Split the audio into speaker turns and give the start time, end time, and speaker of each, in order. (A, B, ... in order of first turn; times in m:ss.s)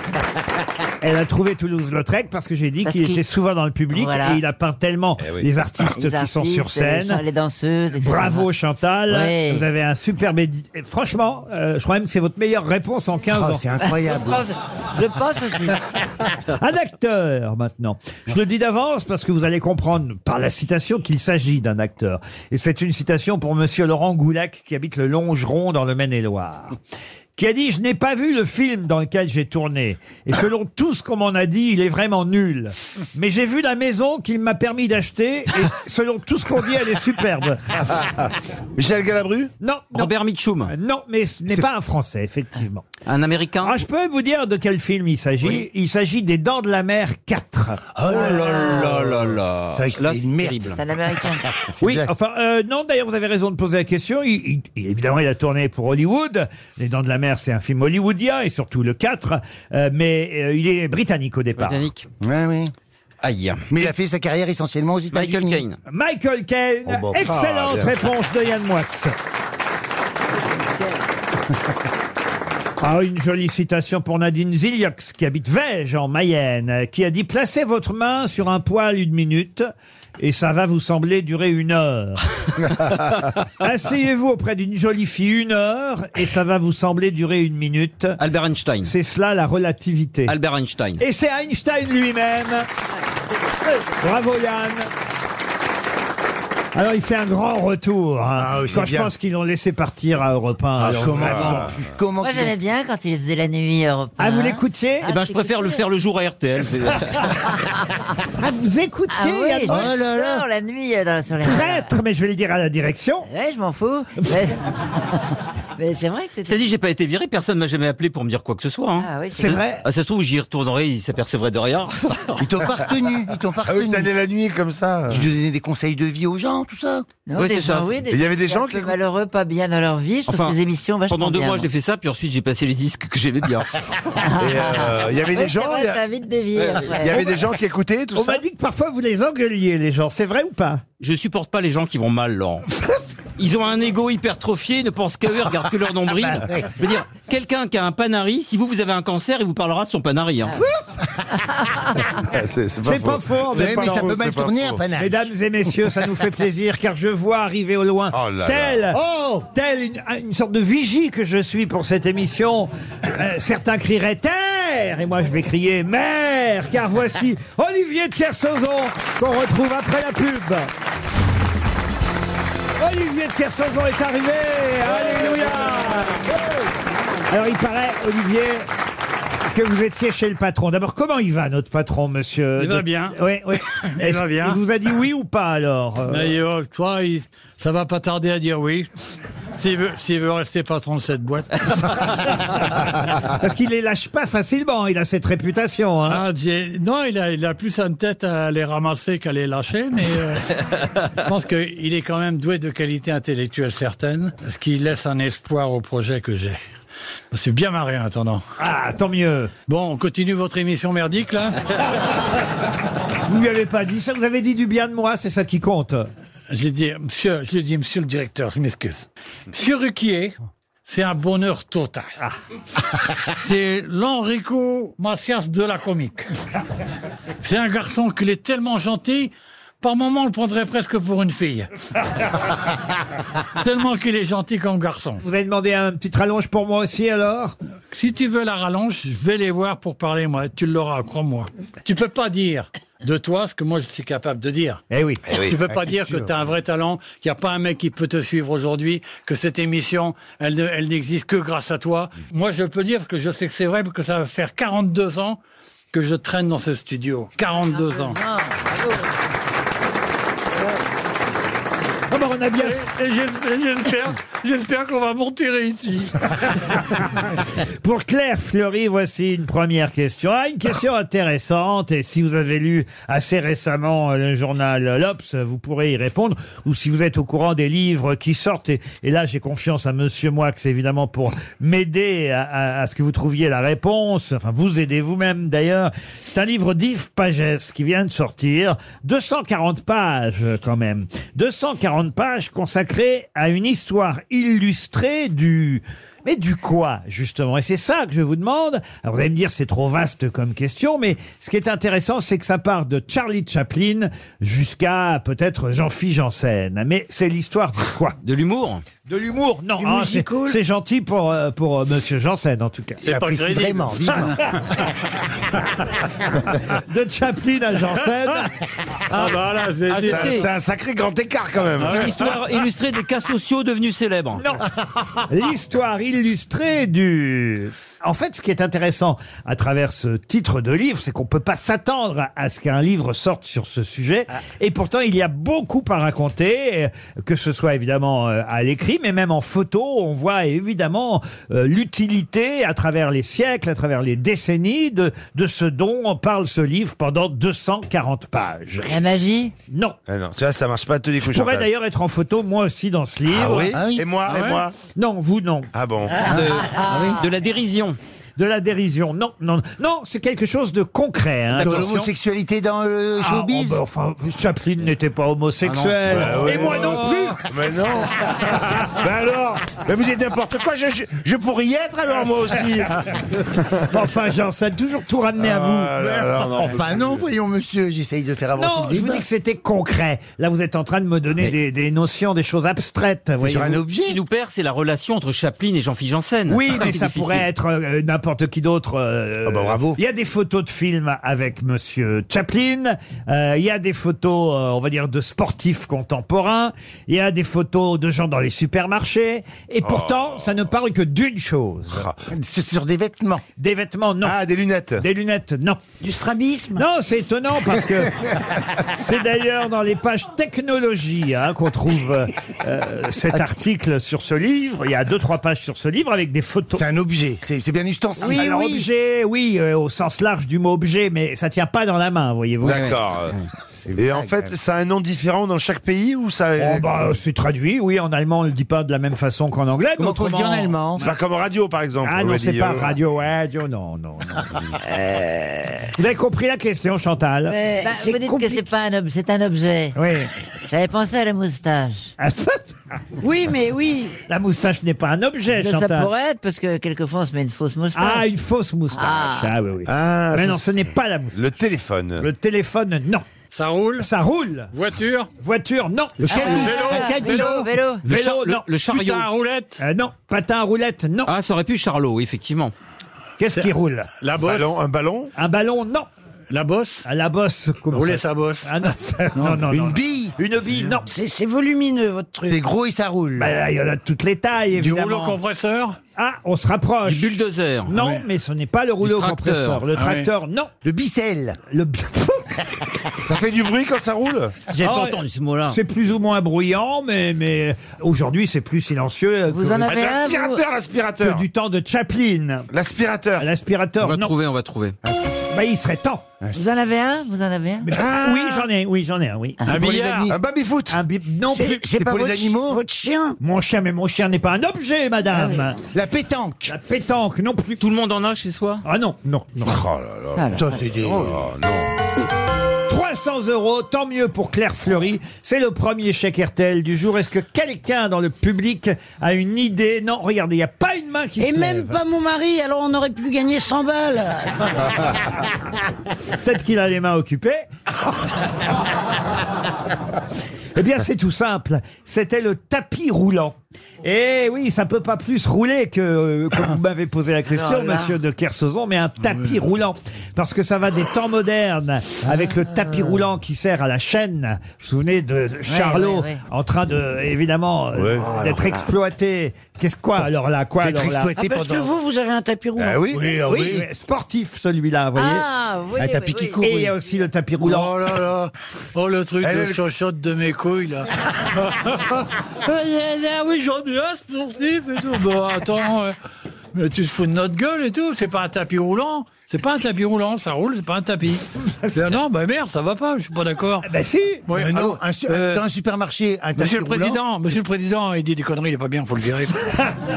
0:01.0-0:07.2 A
0:02.8-0:03.2 B
0:03.9-0:04.4 B
0:05.2-0:05.5 C
0:05.9-0:08.5 B
0:08.0-0:13.6 A
0:09.1-0:09.6 B
0:13.3-0:14.4 D
0:13.8-0:15.8 B
0:16.4-0:26.8 A
0:27.4-0:37.8 A
0:38.8-0:39.5 C
0:39.6-0:40.1 A
0:39.9-0:40.7 E
0:40.6-0:42.9 A
0:43.0-0:43.8 E
0:43.6-0:47.8 A
0:48.0-0:50.8 D
0:48.1-0:50.8 E
0:48.1-0:49.0 B
0:50.8-0:51.4 B
0:51.4-0:52.1 D
0:51.8-1:01.9 A
1:01.6-1:02.1 E
1:02.2-1:02.7 D
1:03.2-1:03.9 E
1:03.7-1:05.6 D
1:05.1-1:05.8 E
1:05.9-1:09.2 A
1:06.8-1:07.4 D
1:07.1-1:07.9 C
1:12.8-1:22.2 A
1:23.6-1:28.2 A
1:28.2-1:28.9 E
1:28.8-1:30.3 A
1:30.3-1:31.0 E
1:31.0-1:32.7 A
1:34.0-1:34.9 A
1:36.7-1:41.7 A
1:38.4-1:39.1 D
1:40.8-1:42.5 D
1:40.8-1:41.8 C
1:42.2-1:45.8 B
1:44.2-1:45.1 A
1:45.0-1:47.4 E
1:48.4-1:49.8 A
1:49.1-1:51.9 B
1:49.7-1:50.4 D
1:51.4-1:53.3 A
1:53.3-1:54.6 B
1:55.8-1:56.6 B
1:56.4-2:02.4 E
1:59.0-1:59.6 B
1:59.3-1:59.8 A
2:02.4-2:04.1 D
2:03.6-2:05.2 C
2:05.1-2:07.0 D
2:07.3-2:11.7 B
2:07.4-2:08.0 E
2:08.1-2:08.9 C
2:10.3-2:10.6 E
2:11.1-2:13.7 E
2:14.2-2:17.3 B
2:14.4-2:16.0 C
2:16.6-2:16.9 E
2:16.9-2:18.4 C
2:18.1-2:20.8 A
2:21.0-2:22.7 E
2:23.4-2:30.6 E
2:26.1-2:26.8 D
2:32.2-2:34.8 C
2:32.8-2:34.1 A
2:33.5-2:35.3 D
2:35.0-2:39.0 A
2:38.1-2:38.8 C
2:38.9-2:39.5 D
2:39.5-2:50.7 A
2:52.8-2:56.3 A
2:57.3-2:58.7 A
2:59.5-3:06.3 A
3:02.6-3:03.2 F
3:03.7-3:04.6 F
3:06.1-3:08.9 F
3:09.6-3:12.0 F
3:13.4-3:16.2 A
3:16.1-3:26.6 F
3:27.3-3:28.4 F
3:28.6-3:29.5 A
3:29.7-3:31.6 F
3:33.2-3:36.1 A
3:36.5-3:42.2 F
3:43.4-3:46.3 F
3:47.4-3:51.7 F
3:53.6-3:55.2 F
3:55.2-3:57.6 A
3:57.9-4:04.8 F
4:04.9-4:05.2 A
4:05.3-4:06.2 C
4:05.3-4:15.4 F
4:15.9-4:18.2 F
4:18.1-4:18.6 B
4:22.1-4:22.8 A
4:22.5-4:26.1 F
4:27.8-5:08.2 A
5:08.2-5:08.8 E
5:09.0-5:13.0 A
5:09.8-5:10.6 G
5:13.0-5:14.4 F
5:13.0-5:14.4 D
5:16.7-5:18.5 A
5:19.1-5:20.5 F
5:19.9-5:20.5 E
5:20.0-5:22.3 C
5:21.8-5:22.5 F
5:21.8-5:24.4 E
5:24.4-5:24.7 A
5:25.2-5:49.0 A
5:48.9-5:49.5 B
5:49.7-5:50.0 A
5:50.1-5:51.7 C
5:51.2-5:53.8 A
5:53.3-5:54.8 C
5:53.7-5:54.0 D
5:54.2-5:54.6 F
5:54.9-5:55.7 A
5:55.7-5:56.2 C
5:56.2-5:58.0 E
5:56.3-5:57.2 D
5:56.6-5:57.2 B
5:58.4-6:02.1 A
6:01.5-6:01.9 E
6:01.6-6:03.8 D
6:03.2-6:07.4 A
6:05.6-6:06.8 E
6:06.0-6:13.0 C
6:06.8-6:07.2 F
6:13.5-6:13.9 C
6:13.9-6:16.0 A
6:15.4-6:17.2 C
6:16.0-6:19.2 D
6:18.6-6:23.8 A
6:23.4-6:24.2 D
6:24.0-6:27.4 E
6:26.5-6:42.1 A
6:29.4-6:30.0 D
6:39.8-6:40.7 C
6:41.9-6:42.2 C
6:42.3-6:43.4 D
6:43.6-6:44.4 A
6:44.2-6:45.0 C
6:45.0-6:45.8 A
6:46.0-6:46.8 G
6:46.8-6:56.8 A
6:56.7-6:58.8 D
6:58.2-7:03.0 A
7:02.6-7:03.4 C
7:03.8-7:04.5 D
7:03.9-7:07.1 C
7:06.6-7:10.8 A
7:10.0-7:11.0 D
7:11.0-7:12.9 C
7:12.0-7:14.5 A
7:14.8-7:15.9 G
7:15.9-7:17.6 A
7:17.5-7:18.6 G
7:17.8-7:20.0 B
7:19.9-7:20.3 A
7:20.7-7:22.1 B
7:22.2-7:23.0 A
7:23.2-7:24.2 G
7:24.3-7:26.1 A
7:25.6-7:28.2 B
7:27.9-7:31.6 A
7:28.9-7:29.5 B
7:29.8-7:30.7 C
7:31.3-7:32.3 C
7:32.2-7:33.3 A
7:33.5-7:34.1 F
7:34.0-7:34.7 A
7:34.7-7:35.3 F
7:35.4-7:36.6 A
7:36.2-7:37.7 D
7:36.2-7:37.6 F
7:36.4-7:38.0 B
7:36.4-7:37.5 G
7:38.0-7:38.6 A
7:38.1-7:39.3 E
7:38.8-7:39.8 F
7:39.8-7:41.3 A
7:41.2-7:42.7 E
7:43.4-7:44.1 A
7:43.5-7:44.8 F
7:44.4-7:45.3 C
7:45.4-7:46.1 A
7:46.5-7:47.0 F
7:47.0-7:51.1 A
7:47.9-7:48.7 F
7:49.4-7:49.6 F
7:49.7-7:50.3 D
7:51.0-7:52.6 G
7:52.4-7:53.5 D
7:53.4-7:55.4 A
7:54.7-7:56.0 F
7:56.2-8:00.7 A
7:57.0-7:57.9 E
7:57.9-7:58.2 F
7:59.0-7:59.8 E
7:59.9-8:00.3 F
8:00.8-8:01.6 D
8:01.7-8:02.6 A
8:03.2-8:04.6 C
8:04.7-8:05.8 E
8:04.8-8:09.9 A
8:09.5-8:10.6 B
8:09.7-8:11.4 C
8:11.2-8:12.7 A
8:12.7-8:13.5 C
8:13.4-8:14.3 A
8:14.0-8:15.0 E
8:15.5-8:16.2 A
8:16.5-8:17.9 B
8:17.9-8:19.8 A
8:17.9-8:18.5 C
8:19.6-8:20.3 F
8:19.6-8:20.4 D
8:20.3-8:21.0 C
8:20.9-8:21.8 A
8:21.4-8:23.4 G
8:21.9-8:22.8 D
8:23.4-8:25.8 A
8:25.3-8:25.7 G
8:25.8-8:26.7 D
8:26.6-8:27.8 A
8:27.8-8:28.8 E
8:28.8-8:29.8 A
8:29.6-8:31.9 C
8:30.5-8:31.4 D
8:32.9-8:42.0 A
8:41.4-8:45.1 G
8:46.4-8:47.6 A
8:50.7-9:11.3 A
8:57.5-8:58.1 B
8:59.2-8:59.5 F
9:05.6-9:06.4 B
9:08.0-9:08.2 C
9:08.2-9:08.8 F
9:10.8-9:11.9 D
9:11.4-9:13.2 G
9:12.8-9:13.8 D
9:12.8-9:13.2 C
9:13.5-9:15.4 A
9:15.2-9:16.6 B
9:16.0-9:16.9 D
9:16.6-9:17.9 A
9:17.6-9:26.1 F
9:19.4-9:19.7 C
9:26.7-9:33.8 F
9:33.8-9:34.4 A
9:34.5-9:35.6 F
9:34.5-9:37.2 D
9:36.6-9:39.9 F